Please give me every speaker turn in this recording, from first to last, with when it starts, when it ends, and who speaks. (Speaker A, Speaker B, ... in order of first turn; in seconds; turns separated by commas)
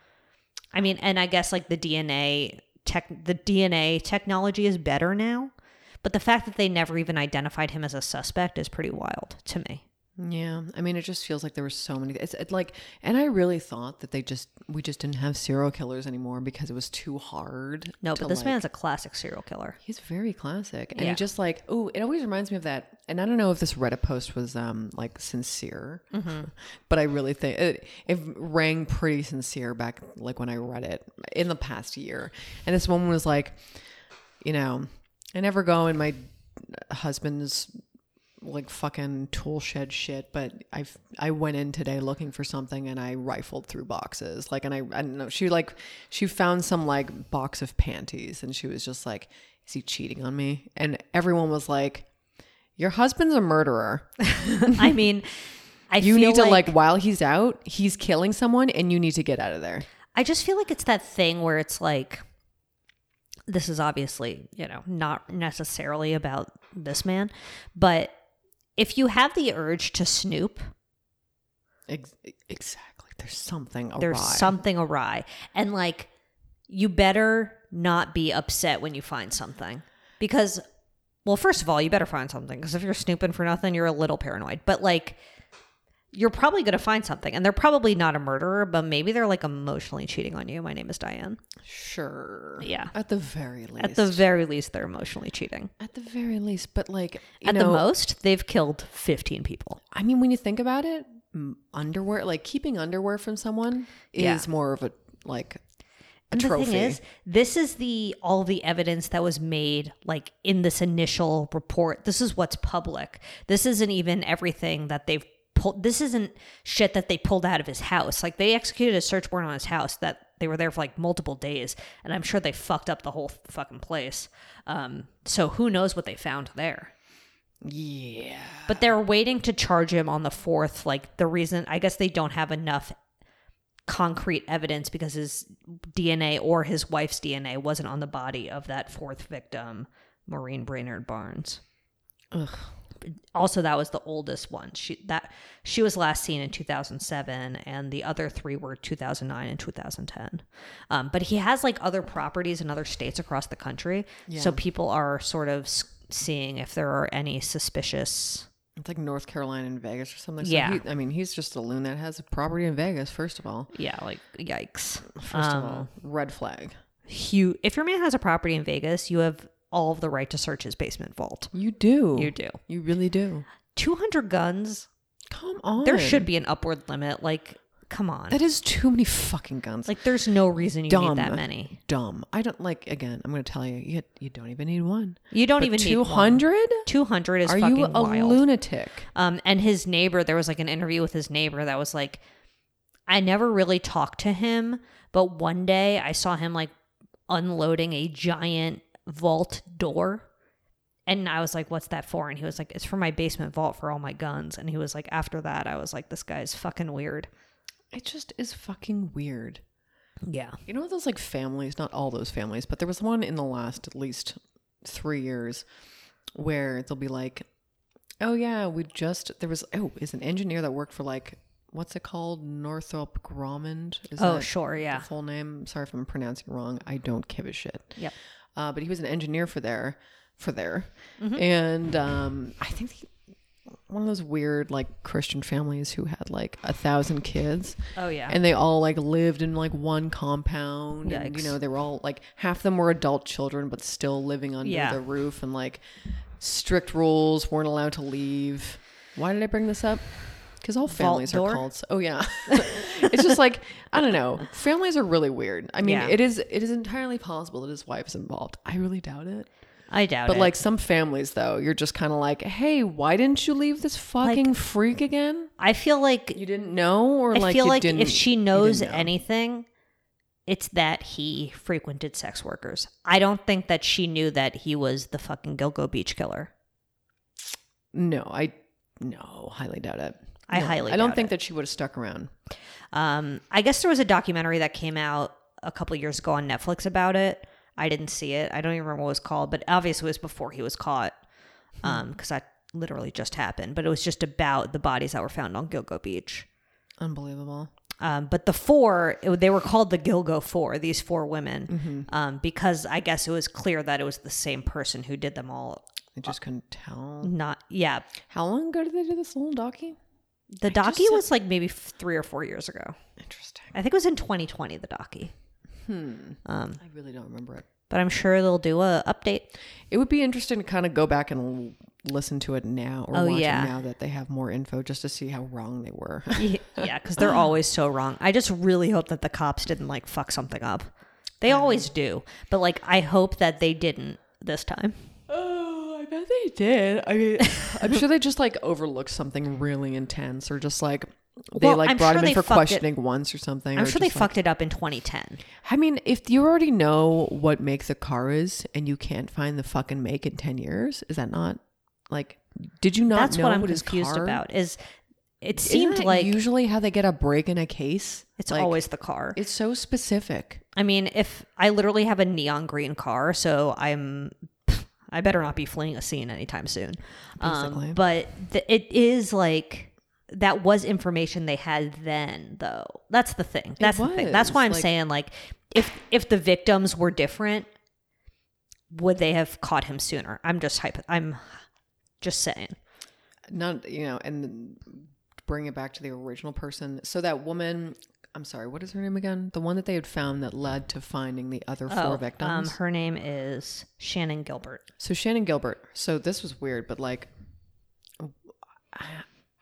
Speaker A: 0.7-5.5, Speaker A: 6.0-9.8, Speaker B: 10.2-18.6, Speaker A: 18.0-19.8, Speaker B: 19.8-33.6, Speaker A: 20.9-21.2, Speaker A: 26.1-26.5, Speaker B: 34.4-37.7, Speaker B: 38.4-52.1, Speaker B: 52.8-54.9, Speaker A: 54.6-55.3, Speaker A: 55.9-56.7, Speaker B: 56.0-59.9, Speaker A: 60.1-62.2, Speaker A: 63.5-68.1, Speaker A: 68.8-70.7, Speaker B: 71.9-74.5, Speaker A: 74.0-76.1, Speaker A: 76.7-80.6, Speaker A: 81.2-85.2, Speaker A: 86.1-91.4, Speaker B: 91.6-94.2, Speaker A: 92.6-92.9, Speaker A: 93.8-95.7, Speaker B: 95.8-97.9, Speaker A: 97.4-99.8, Speaker B: 99.9-105.6, Speaker A: 104.2-104.5, Speaker B: 106.3-107.0, Speaker A: 106.3-126.9, Speaker B: 127.6-128.9, Speaker A: 128.7-132.9, Speaker A: 133.9-141.6, Speaker B: 142.3-142.7, Speaker A: 143.1-158.4, Speaker B: 154.3-154.6, Speaker B: 158.8-163.7, Speaker A: 160.4-160.8, Speaker A: 163.7-165.9, Speaker B: 165.1-166.8, Speaker A: 167.1-171.5, Speaker B: 171.5-173.4, Speaker A: 172.1-172.6, Speaker A: 173.7-174.9, Speaker B: 175.3-176.3, Speaker A: 175.8-178.4, Speaker B: 178.3-180.0, Speaker A: 179.9-181.8, Speaker B: 180.9-186.9, Speaker A: 185.3-188.4, Speaker B: 187.4-189.1, Speaker A: 189.1-192.2, Speaker A: 193.1-196.7, Speaker A: 197.3-200.2, Speaker A: 201.1-207.3, Speaker B: 207.9-209.6, Speaker A: 210.2-210.6, Speaker B: 210.7-215.7, Speaker B: 216.3-217.4, Speaker B: 218.2-228.0, Speaker A: 224.2-225.1, Speaker B: 228.5-233.1, Speaker A: 231.2-231.4, Speaker B: 233.9-245.8, Speaker A: 237.9-238.4, Speaker A: 241.0-241.6, Speaker A: 244.6-245.0, Speaker B: 246.4-259.5, Speaker A: 250.9-251.6, Speaker A: 252.5-252.9, Speaker A: 255.8-256.1, Speaker A: 259.9-260.6, Speaker B: 260.2-265.5, Speaker A: 264.2-264.5, Speaker A: 265.6-266.4, Speaker B: 266.3-269.1, Speaker A: 267.3-269.6, Speaker A: 270.5-276.5, Speaker B: 277.9-282.3, Speaker A: 280.5-281.3, Speaker A: 282.9-291.1, Speaker A: 291.8-296.4, Speaker B: 297.0-297.7, Speaker A: 298.0-305.8, Speaker B: 301.7-302.1, Speaker B: 306.1-307.3, Speaker A: 307.2-308.1, Speaker B: 308.3-310.0, Speaker A: 310.5-312.9, Speaker B: 310.6-311.2, Speaker B: 313.2-313.7, Speaker A: 313.7-315.3, Speaker B: 315.8-317.7, Speaker A: 316.4-316.8, Speaker A: 317.9-319.5, Speaker B: 319.9-327.4, Speaker A: 323.1-323.7, Speaker A: 326.4-330.9, Speaker A: 331.4-335.1, Speaker B: 331.4-331.9, Speaker B: 335.3-344.4, Speaker A: 341.6-342.9, Speaker A: 343.8-345.4, Speaker B: 345.6-354.4, Speaker A: 353.1-354.8, Speaker A: 355.4-356.4, Speaker B: 355.6-358.8, Speaker A: 358.4-359.4, Speaker B: 359.3-360.6, Speaker A: 360.8-377.7, Speaker B: 367.4-368.0, Speaker B: 373.8-374.9, Speaker A: 378.9-381.6, Speaker A: 382.2-382.8, Speaker B: 383.5-392.8, Speaker A: 391.9-394.9, Speaker B: 395.0-397.3, Speaker B: 398.9-399.2